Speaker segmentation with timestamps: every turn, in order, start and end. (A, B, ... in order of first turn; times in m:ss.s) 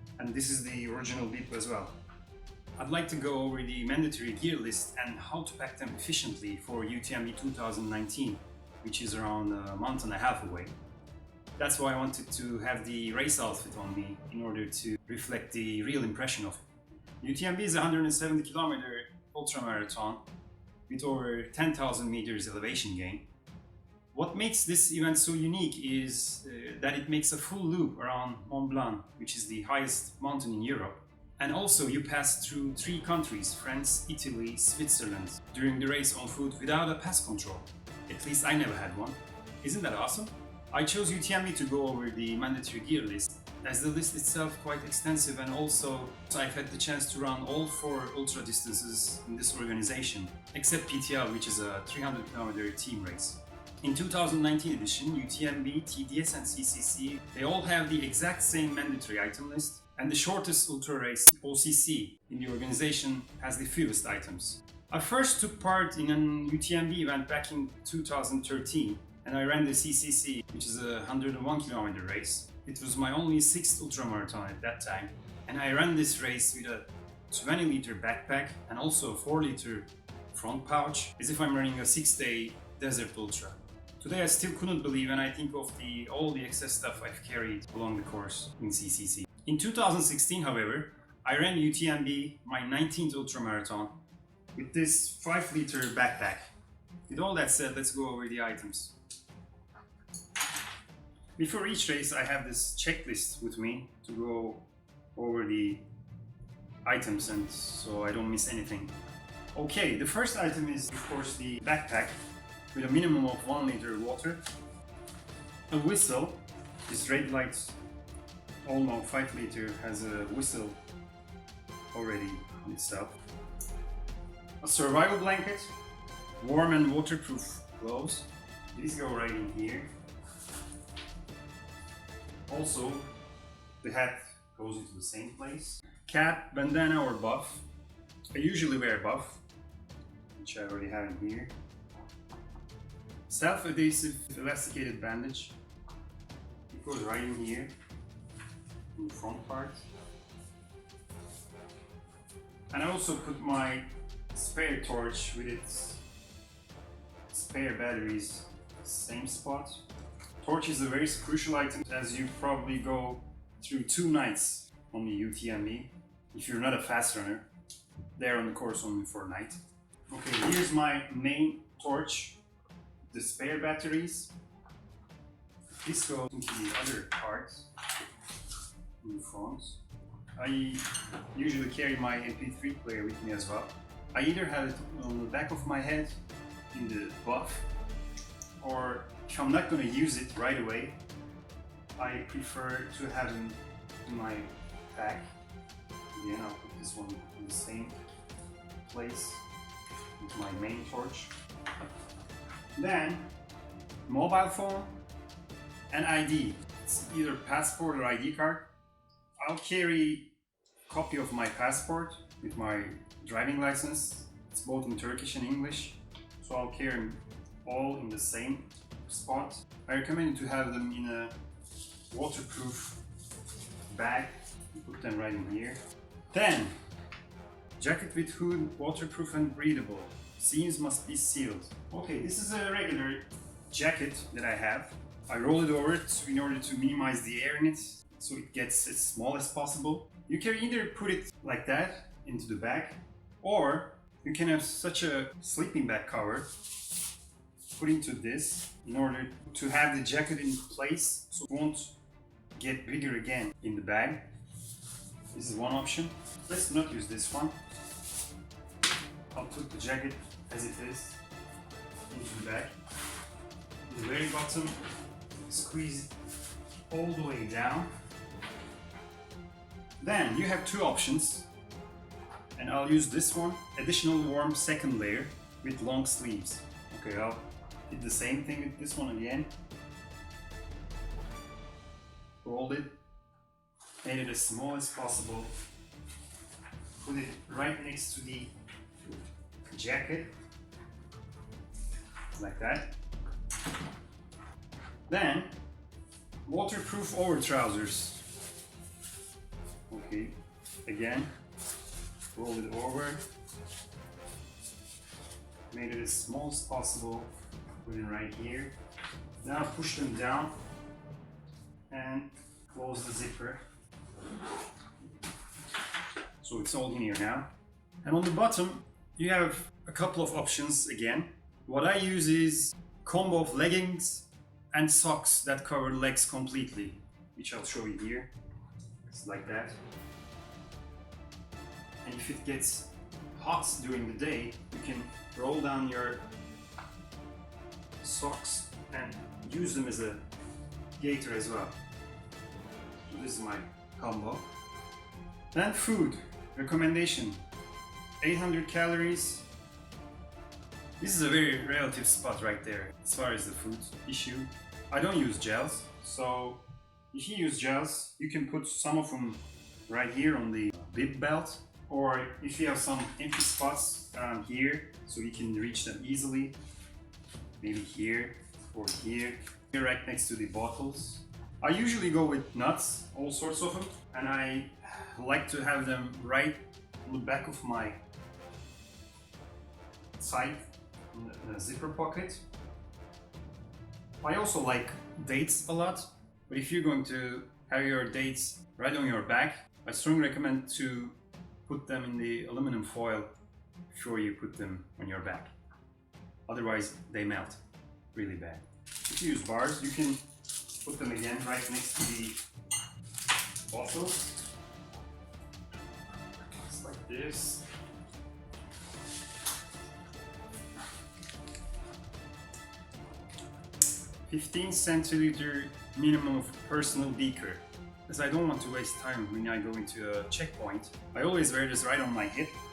0:00.2-0:02.0 A
0:02.8-0:10.7 A
0:11.6-0:16.6 A
0:17.2-0:20.2 A
0:20.9-0:23.2 A
0:24.1-1:33.9 A
1:34.5-1:36.4 A
1:37.1-1:38.9 A
1:41.4-1:45.8 A
1:46.8-1:49.0 A
1:49.5-1:52.2 A
1:52.7-1:54.4 A
1:55.7-1:57.8 A
1:58.6-2:00.8 A
2:01.9-2:03.2 A
2:04.6-2:05.7 A
2:06.4-2:09.9 A
2:12.5-2:13.1 A
2:13.8-2:17.6 A
2:18.3-2:19.4 A
2:20.4-2:21.5 A
2:23.3-2:25.6 A
2:26.7-2:27.7 A
2:28.9-2:29.9 A
2:32.7-2:36.0 A
2:37.3-2:39.8 A
2:40.4-2:47.5 A
2:48.2-2:49.6 A
2:50.1-2:52.4 A
2:53.1-2:54.3 A
2:55.8-2:57.7 A
2:59.0-2:59.8 A
3:00.4-3:06.1 A
3:06.7-3:07.7 A
3:08.6-3:11.0 A
3:12.0-3:15.2 A
3:16.1-3:18.0 A
3:18.8-3:19.4 A
3:20.2-3:21.3 A
3:22.8-3:23.3 A
3:24.1-3:24.9 A
3:25.9-3:28.7 A
3:29.4-3:30.3 A
3:30.9-3:41.3 A
3:42.1-3:43.0 A
3:43.9-3:45.8 A
3:46.3-3:46.7 A
3:47.8-4:06.5 A
4:07.7-4:12.0 A
4:12.5-4:14.3 A
4:15.3-4:17.5 A
4:19.3-4:21.2 A
4:22.1-4:22.7 A
4:23.9-4:24.8 A
4:25.4-4:26.1 A
4:26.9-4:27.9 A
4:30.0-4:31.5 A
4:32.6-4:39.5 A
4:42.4-4:43.0 A
4:44.0-4:45.5 A
4:47.0-4:48.5 A
4:49.7-4:50.3 A
4:52.4-4:52.9 A
4:55.1-4:55.6 A
4:56.4-4:58.3 A
4:59.9-5:01.3 A
5:02.3-5:03.2 A
5:05.7-5:07.3 A
5:07.8-5:08.7 A
5:09.4-5:10.5 A
5:11.9-5:13.6 A
5:16.4-5:17.5 A
5:18.0-5:28.3 A
5:29.1-5:29.8 A
5:32.0-5:36.2 A
5:38.0-5:40.2 A
5:41.0-5:41.8 A
5:43.1-5:44.5 A
5:45.5-5:47.4 A
5:48.2-5:49.5 A
5:51.0-6:06.6 A
6:07.6-6:18.0 A
6:20.2-6:22.4 A
6:24.2-6:31.1 A
6:31.7-6:33.3 A
6:33.9-6:35.5 A
6:36.5-6:37.6 A
6:38.1-6:40.2 A
6:40.8-6:42.4 A
6:43.7-6:44.4 A
6:46.6-6:47.7 A
6:54.3-7:02.6 A